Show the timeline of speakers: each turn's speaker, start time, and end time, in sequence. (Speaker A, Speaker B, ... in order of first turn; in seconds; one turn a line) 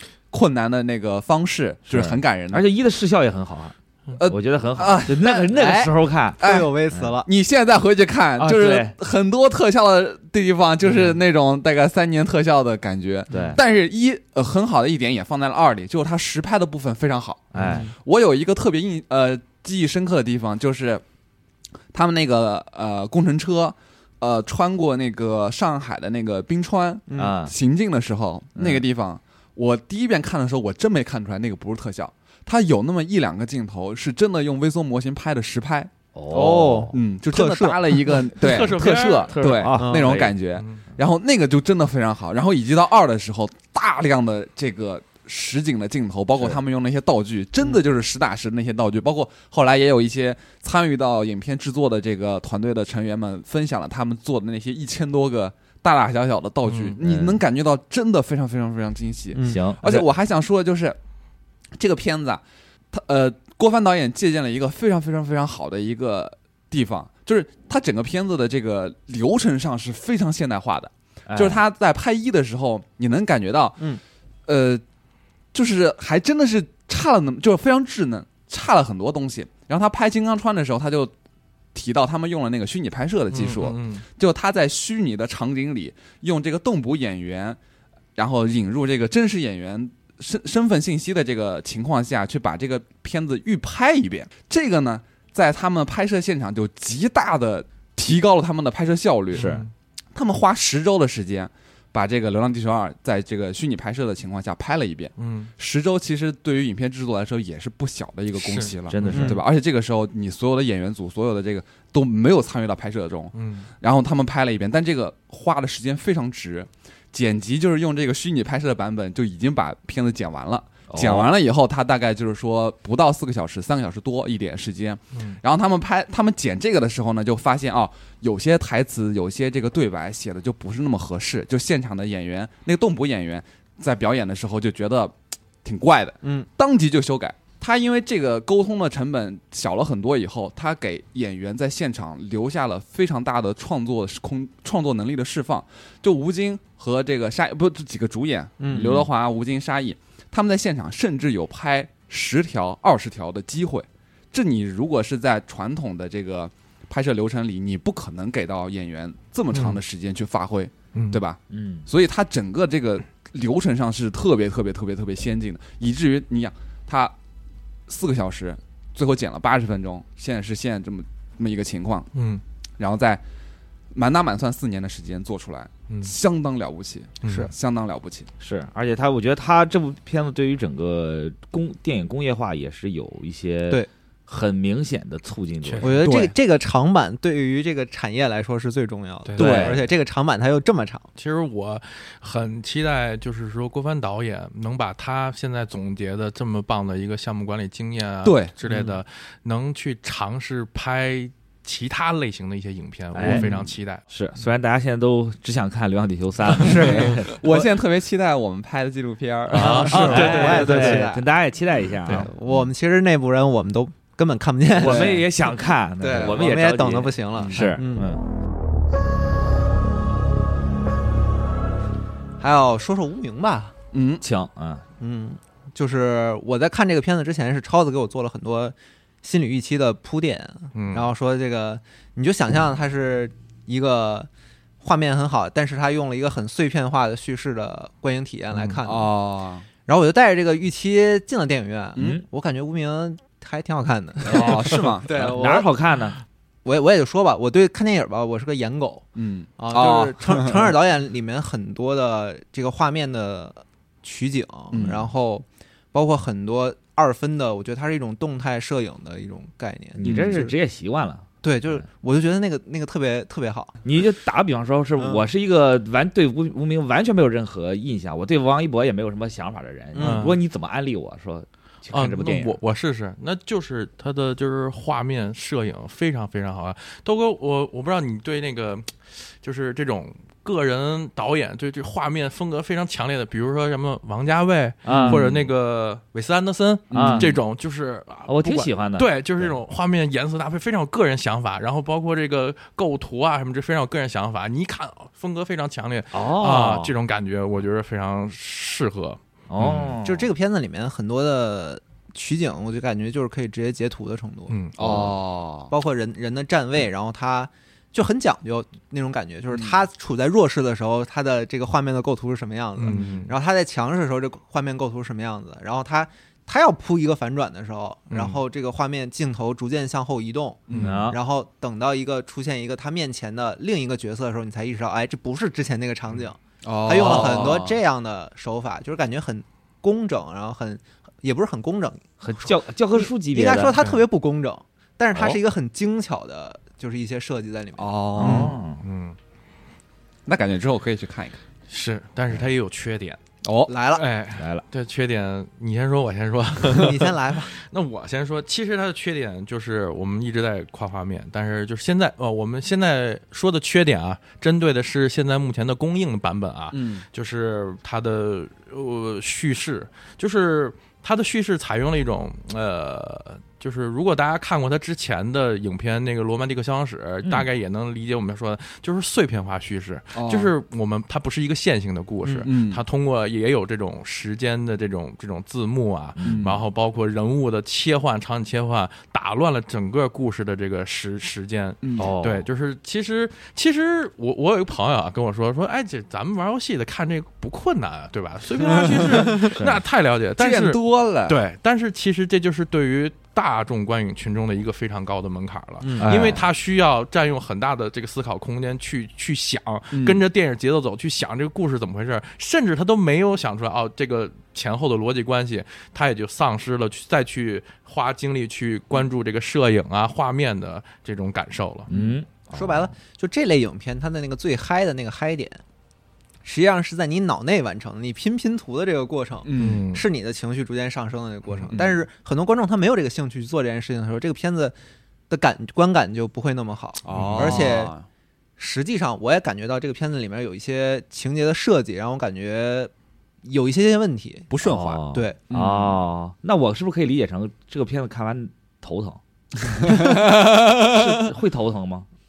Speaker A: 0.3-2.6
Speaker B: 1.9-6.4
Speaker A: 4.1-5.4
Speaker C: 5.2-7.3
Speaker A: 6.4-6.7
Speaker A: 7.2-21.0
Speaker B: 8.4-8.9
Speaker B: 13.3-13.6
Speaker B: 17.5-17.9
Speaker C: 17.6-17.9
Speaker A: 21.9-35.9
Speaker C: 27.1-27.3
Speaker B: 27.2-27.5
Speaker B: 28.6-28.8
Speaker B: 36.1-37.0
Speaker C: 36.3-38.3
Speaker A: 36.9-61.0
Speaker D: 38.3-39.3
Speaker B: 39.3-40.3
Speaker C: 39.8-40.3
Speaker D: 40.5-40.8
Speaker D: 56.6-57.0
Speaker B: 57.0-57.4
Speaker C: 59.3-59.6
Speaker B: 59.4-60.1
Speaker A: 61.8-73.9
Speaker B: 71.3-71.6
Speaker A: 74.5-74.8
Speaker A: 75.5-81.1
Speaker A: 81.7-87.6
Speaker D: 83.3-84.0
Speaker A: 88.2-99.5
Speaker D: 99.3-99.7
Speaker B: 99.3-99.6
Speaker A: 100.1-167.1
Speaker D: 105.2-105.5
Speaker D: 108.4-108.8
Speaker B: 108.9-109.4
Speaker C: 109.1-109.4
Speaker D: 113.3-113.7
Speaker B: 120.9-121.3
Speaker C: 136.2-136.5
Speaker C: 148.6-149.0
Speaker D: 159.5-159.8
Speaker D: 160.9-161.2
Speaker B: 161.5-161.9
Speaker A: 167.9-172.1
Speaker D: 172.1-172.4
Speaker A: 172.8-173.2
Speaker A: 173.9-178.3
Speaker D: 177.2-177.5
Speaker B: 178.4-186.1
Speaker D: 185.6-185.9
Speaker C: 185.8-191.1
Speaker A: 186.0-186.3
Speaker D: 189.2-189.6
Speaker B: 189.3-189.8
Speaker A: 189.4-189.7
Speaker D: 191.2-204.0
Speaker A: 198.2-198.5
Speaker B: 203.1-203.5
Speaker A: 203.3-203.7
Speaker B: 204.1-207.7
Speaker A: 206.6-210.7
Speaker D: 209.5-211.1
Speaker B: 209.5-212.3
Speaker C: 209.6-211.2
Speaker C: 212.1-215.2
Speaker B: 214.7-218.2
Speaker A: 214.8-215.2
Speaker C: 216.0-218.1
Speaker A: 217.4-217.7
Speaker C: 222.4-223.7
Speaker A: 223.9-224.2
Speaker B: 224.2-224.8
Speaker C: 225.0-234.3
Speaker D: 230.7-231.1
Speaker C: 234.8-239.1
Speaker A: 238.8-239.7
Speaker C: 239.8-245.7
Speaker B: 242.0-242.2
Speaker A: 244.2-245.3
Speaker B: 245.1-246.2
Speaker C: 246.6-249.1
Speaker A: 249.2-250.7
Speaker C: 249.6-260.5
Speaker A: 254.7-255.1
Speaker B: 259.9-261.2
Speaker A: 260.0-260.4
Speaker C: 261.4-263.8
Speaker B: 263.8-272.6
Speaker C: 265.0-265.2
Speaker C: 269.9-270.3
Speaker D: 270.0-270.4
Speaker D: 271.9-300.0
Speaker B: 284.8-285.2
Speaker A: 284.9-285.4
Speaker A: 286.9-287.4
Speaker B: 286.9-287.3
Speaker B: 288.3-289.5
Speaker B: 296.1-296.9
Speaker B: 299.5-300.3
Speaker C: 300.0-305.1
Speaker D: 304.5-305.1
Speaker A: 304.8-305.7
Speaker C: 305.7-338.5
Speaker A: 309.5-309.8
Speaker D: 312.8-313.3
Speaker D: 318.1-318.4
Speaker A: 320.7-321.0
Speaker B: 320.8-321.2
Speaker A: 326.6-327.8
Speaker B: 332.2-333.8
Speaker D: 333.8-334.0
Speaker A: 337.8-338.5
Speaker B: 338.2-338.8
Speaker D: 338.8-339.1
Speaker A: 340.2-341.4
Speaker D: 341.7-343.2
Speaker A: 343.4-343.7
Speaker C: 343.7-344.1
Speaker D: 343.9-411.9
Speaker B: 344.4-344.6
Speaker C: 346.7-347.6
Speaker A: 356.7-357.1
Speaker A: 370.1-370.5
Speaker A: 372.4-372.8
Speaker B: 376.2-376.5
Speaker A: 376.2-376.6
Speaker A: 381.8-382.1
Speaker B: 382.0-382.4
Speaker A: 388.7-389.3
Speaker B: 389.4-389.8
Speaker A: 390.4-391.4
Speaker C: 395.8-396.1
Speaker B: 396.0-396.4
Speaker A: 399.9-400.2
Speaker B: 411.9-412.9
Speaker C: 412.0-415.6
Speaker C: 416.4-424.7
Speaker A: 419.4-419.8
Speaker D: 419.6-420.0
Speaker A: 421.6-422.0
Speaker C: 425.3-427.9
Speaker A: 427.0-428.1
Speaker D: 427.1-427.6
Speaker C: 428.6-432.9
Speaker C: 433.4-435.4
Speaker A: 434.5-436.0
Speaker B: 434.6-442.1
Speaker A: 440.0-441.1